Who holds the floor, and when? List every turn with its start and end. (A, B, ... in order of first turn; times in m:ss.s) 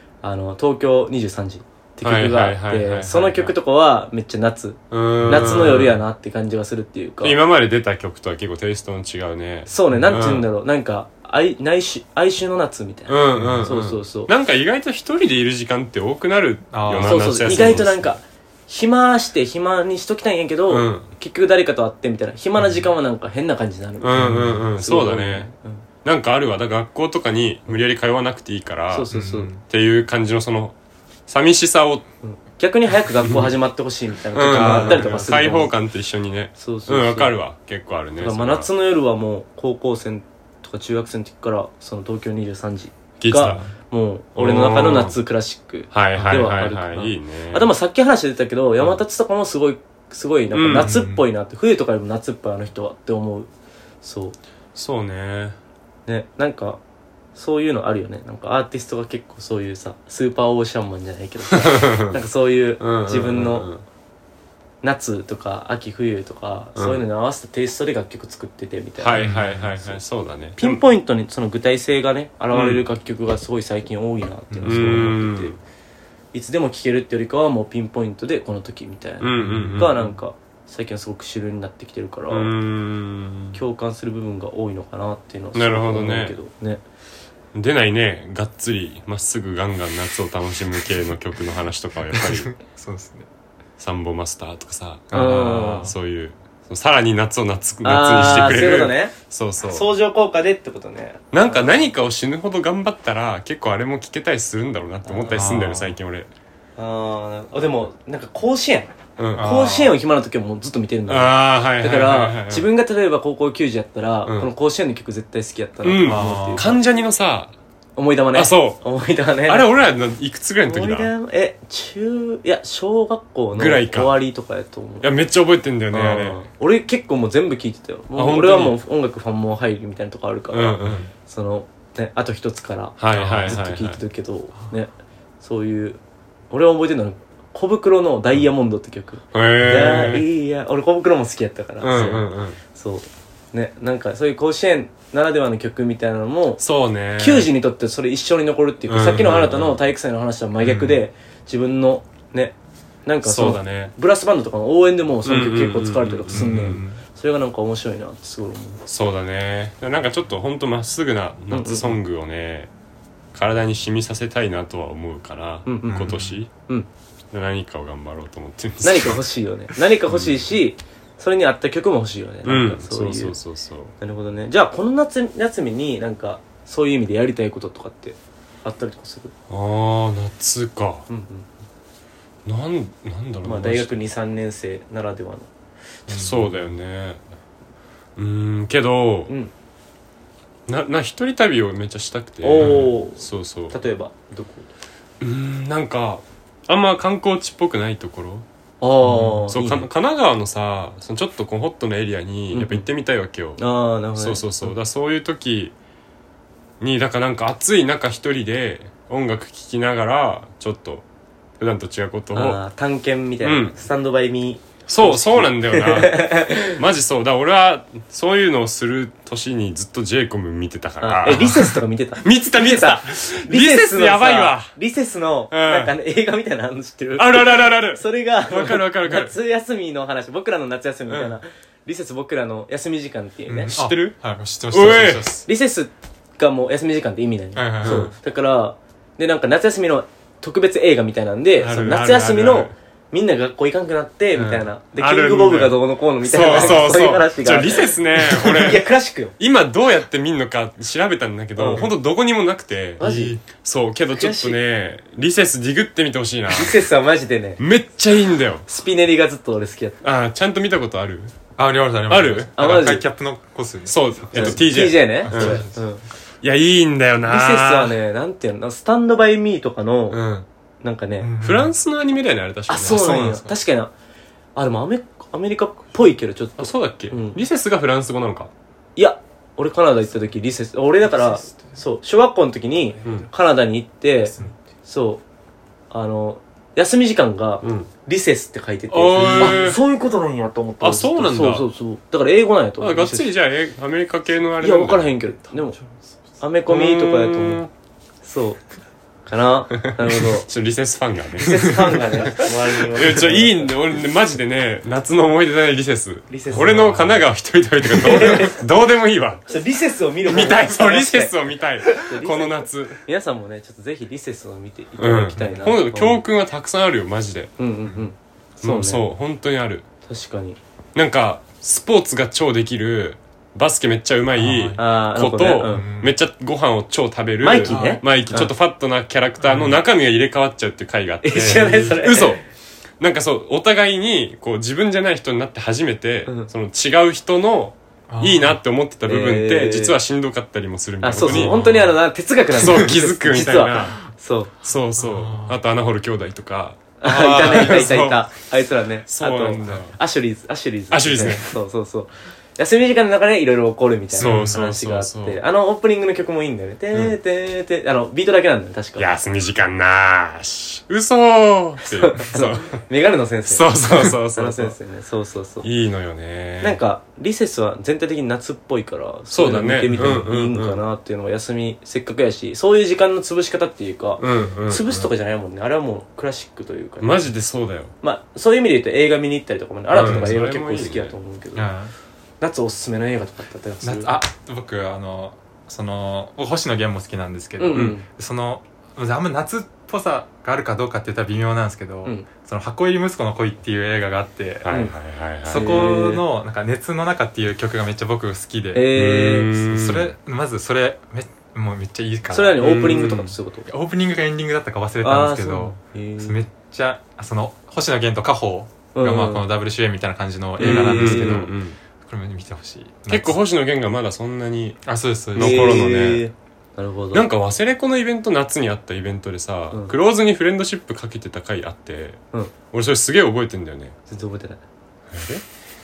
0:00.2-0:07.4 A
0:02.0-0:03.5 B
0:04.9-0:06.0 B
0:05.2-0:05.8 C
0:07.2-0:10.4 B
0:09.7-0:14.3 A
0:13.1-0:18.1 B
0:13.4-0:13.6 C
0:16.7-0:17.9 C
0:17.0-0:24.2 A
0:20.7-0:21.1 B
0:22.6-0:22.8 C
0:24.0-0:25.5 B
0:24.1-0:24.6 C
0:24.8-0:25.8 A
0:26.0-0:30.8 B
0:28.9-0:29.5 A
0:29.1-0:29.6 C
0:31.3-0:32.0 B
0:32.2-0:35.8 A
0:33.2-0:33.5 B
0:34.3-0:38.7 B
0:34.5-0:35.6 C
0:36.6-0:37.4 A
0:38.2-0:53.5 A
0:43.2-0:43.7 B
0:44.4-0:45.2 B
0:45.9-0:47.7 B
0:50.5-0:50.9 B
0:50.7-0:51.2 C
0:54.0-0:54.4 A
0:54.7-0:55.6 B
0:56.0-0:56.8 A
0:57.3-1:03.7 A
1:01.5-1:02.2 B
1:02.8-1:03.8 B
1:04.8-1:09.3 A
1:06.8-1:07.0 B
1:09.0-1:10.8 B
1:09.2-1:09.8 C
1:10.6-1:15.6 A
1:12.5-1:12.8 B
1:14.5-1:15.0 C
1:14.6-1:15.6 B
1:16.3-1:22.5 A
1:19.2-1:20.1 B
1:19.4-1:19.9 C
1:22.3-1:23.6 B
1:23.5-1:26.8 A
1:25.5-1:26.4 B
1:27.5-1:32.5 B
1:32.1-1:33.2 C
1:33.8-1:39.9 B
1:35.1-1:35.9 A
1:35.1-1:35.9 C
1:37.8-1:41.9 A
1:41.3-1:46.3 B
1:45.0-1:45.5 A
1:45.3-1:45.9 C
1:46.8-1:56.8 A
1:49.2-1:49.5 B
1:49.3-1:50.0 C
1:51.1-1:52.7 B
1:54.2-1:54.5 B
1:55.8-1:57.5 B
1:56.0-1:56.7 C
1:58.0-1:59.7 A
1:58.3-1:58.8 B
1:59.4-2:01.1 B
2:00.6-2:05.1 A
2:03.6-2:04.2 B
2:05.0-2:06.4 B
2:05.9-2:16.0 A
2:08.1-2:08.8 B
2:10.5-2:11.1 B
2:13.0-2:14.0 B
2:13.1-2:13.6 C
2:16.5-2:26.6 A
2:19.3-2:20.2 B
2:21.8-2:22.6 B
2:21.9-2:22.2 C
2:26.6-2:27.5 B
2:27.2-2:32.5 A
2:28.9-2:29.8 B
2:33.0-2:38.8 A
2:33.2-2:33.9 B
2:35.2-2:36.8 B
2:36.3-2:37.0 C
2:38.9-2:42.7 B
2:41.5-2:42.0 A
2:43.3-2:46.5 B
2:45.6-2:46.9 A
2:45.9-2:46.4 C
2:47.3-2:49.2 B
2:48.8-2:53.4 A
2:50.1-2:50.4 B
2:52.4-2:53.9 B
2:54.0-2:59.3 A
2:59.5-3:01.1 B
3:01.1-3:01.5 A
3:02.4-3:03.9 B
3:03.4-3:05.5 A
3:06.1-3:06.4 C
3:06.1-3:07.2 B
3:08.2-3:09.3 B
3:09.3-3:09.5 A
3:10.7-3:13.8 B
3:12.4-3:14.7 A
3:12.6-3:12.9 C
3:15.2-3:18.4 B
3:18.8-3:19.9 A
3:19.0-3:19.5 C
3:19.5-3:23.6 B
3:22.5-3:22.8 A
3:23.6-3:24.7 A
3:24.2-3:25.7 B
3:26.8-3:31.0 B
3:31.6-3:32.6 B
3:32.3-3:36.8 A
3:33.4-3:33.8 B
3:34.9-3:44.7 B
3:41.0-3:53.7 A
3:45.5-3:45.9 B
3:47.2-3:49.3 B
3:51.1-3:51.4 B
3:53.5-3:55.4 C
3:53.7-3:54.1 B
3:54.7-3:55.4 B
3:55.4-4:09.3 A
3:57.5-3:58.1 C
3:57.8-3:58.1 B
4:01.6-4:02.7 B
4:04.3-4:08.8 B
4:06.4-4:06.9 C
4:09.4-4:13.0 B
4:11.6-4:11.9 A
4:13.0-4:13.4 A
4:13.0-4:13.4 C
4:13.6-4:16.8 B
4:14.1-4:14.6 A
4:16.5-4:17.6 A
4:17.6-4:18.6 B
4:18.6-4:20.0 A
4:20.0-4:21.3 B
4:21.6-4:25.8 C
4:22.1-4:22.5 B
4:22.6-4:23.0 A
4:23.8-4:25.6 B
4:24.3-4:26.0 A
4:26.4-4:27.9 B
4:27.2-4:30.2 A
4:30.1-4:30.5 B
4:30.8-4:31.3 A
4:31.2-4:31.7 C
4:31.4-4:33.3 B
4:32.7-4:33.9 A
4:32.8-4:33.5 C
4:34.6-4:37.4 A
4:36.6-4:38.5 B
4:39.0-4:45.2 A
4:41.0-4:41.8 C
4:45.9-4:53.3 A
4:47.6-4:47.9 B
4:48.9-4:49.8 C
4:49.1-4:49.8 B
4:50.8-4:51.7 B
4:52.8-4:55.1 B
4:54.6-4:55.8 A
4:56.4-4:57.6 A
4:56.7-4:57.7 B
4:58.2-4:58.6 A
4:59.2-5:00.5 A
4:59.8-5:09.4 B
5:01.4-5:03.7 A
5:06.3-5:07.1 A
5:06.5-5:07.0 C
5:07.8-5:08.6 A
5:09.4-5:16.2 A
5:10.2-5:13.0 B
5:15.0-5:17.5 B
5:17.6-5:19.0 A
5:18.6-5:19.8 B
5:20.1-5:20.6 A
5:20.9-5:32.4 B
5:24.3-5:24.8 C
5:24.8-5:25.8 A
5:25.6-5:26.2 C
5:27.4-5:28.5 A
5:27.7-5:28.0 C
5:29.4-5:29.8 C
5:31.2-5:32.4 A
5:33.0-5:41.6 B
5:38.1-5:38.6 C
5:39.0-5:40.0 A
5:41.0-5:44.5 A
5:41.2-5:41.9 C
5:42.5-5:44.0 B
5:44.6-5:48.2 B
5:45.0-5:45.6 C
5:47.0-5:59.2 A
5:47.0-5:47.8 C
5:49.1-5:49.9 B
5:50.9-5:51.5 B
5:54.1-5:54.6 C
5:54.2-5:55.4 B
5:59.0-6:02.8 B
6:01.8-6:05.7 A
6:03.4-6:04.8 B
6:05.6-6:06.8 B
6:06.6-6:17.3 A
6:09.3-6:10.8 B
6:09.9-6:10.3 C
6:14.2-6:15.1 B
6:17.0-6:17.9 B
6:18.0-6:21.7 A
6:19.9-6:21.2 B
6:19.9-6:20.4 C
6:21.5-6:21.9 C
6:22.4-6:24.2 A
6:23.8-6:34.7 C
6:27.6-6:28.0 A
6:34.6-6:35.8 B
6:34.7-6:36.2 A
6:35.5-6:38.8 C
6:38.7-6:39.5 A
6:38.9-6:40.1 B
6:39.6-6:53.4 C
6:42.3-6:43.7 A
6:42.6-6:43.0 B
6:45.0-6:46.4 A
6:48.9-6:49.4 A
6:50.6-6:51.4 A
6:50.6-6:51.8 B
6:53.1-6:56.2 B
6:54.8-6:55.8 C
6:55.4-6:57.3 A
6:57.1-7:02.2 B
7:02.7-7:03.9 B
7:04.1-7:04.6 A
7:05.1-7:05.4 B